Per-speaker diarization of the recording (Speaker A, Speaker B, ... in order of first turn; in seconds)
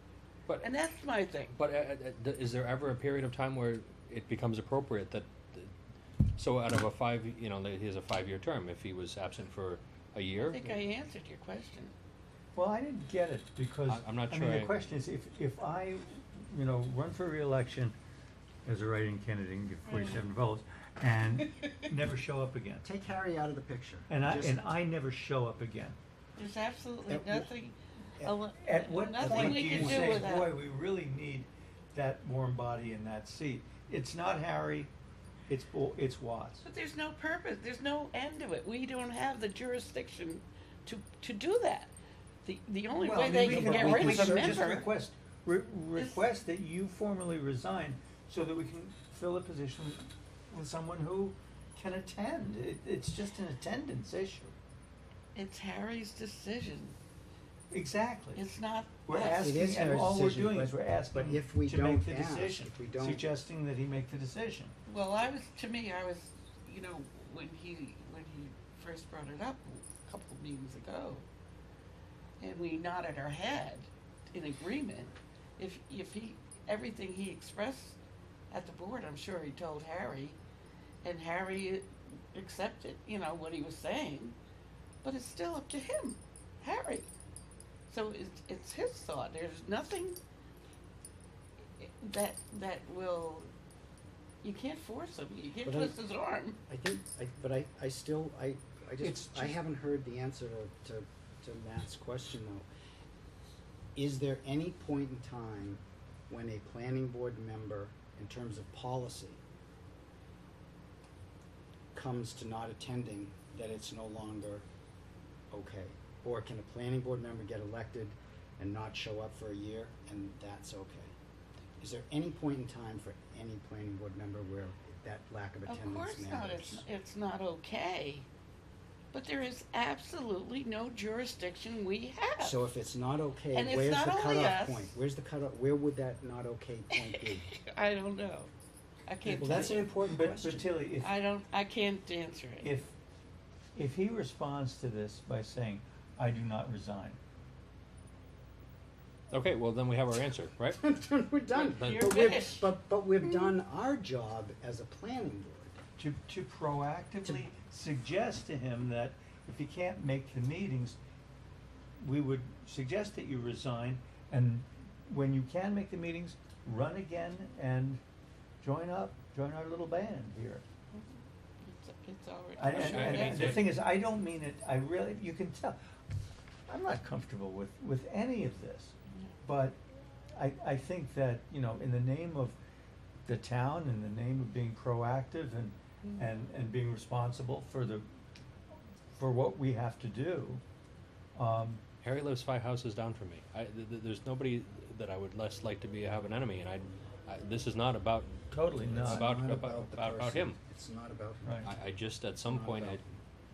Speaker A: 0.6-1.6, 10.3-11.9, 19.9-20.2, 26.4-30.5, 36.6-41.9, 42.4-44.9, 46.0-46.2, 55.3-57.0, 58.3-59.7, 64.9-71.2, 72.4-78.0, 78.5-80.4, 81.0-84.3, 85.0-87.1, 87.9-90.2, 91.8-93.5, 94.4-96.6, 125.7-128.3, 129.1-132.6, 133.5-135.0, 137.0-138.5, 139.1-139.9, 141.0-142.7, 151.5-152.7, 170.9-173.7
Speaker B: 1.5-5.7, 6.3-10.8, 13.9-14.7, 149.3-150.8, 151.7-152.4, 172.7-173.7, 192.0-200.6, 201.6-203.0
Speaker C: 12.5-17.9, 18.6-22.8, 24.1-26.0, 28.2-34.9, 35.5-36.6, 43.0-54.5, 57.7-58.4, 59.1-64.7, 99.0-99.5, 140.1-141.1, 142.6-142.9, 143.7-147.2, 156.0-161.0, 162.0-168.0, 168.6-170.6, 172.6-175.8, 176.7-179.8, 180.3-182.6, 183.2-188.0, 189.1-190.6, 191.3-191.8, 198.5-199.3
Speaker D: 22.8-24.6, 27.1-27.5, 29.2-30.3, 43.5-44.6, 59.2-63.2, 95.6-96.0, 96.7-102.7, 104.0-109.4, 111.9-114.7, 115.5-121.1, 121.8-126.8, 132.4-137.5, 139.2-140.7, 150.8-155.8, 199.0-201.7, 202.4-203.2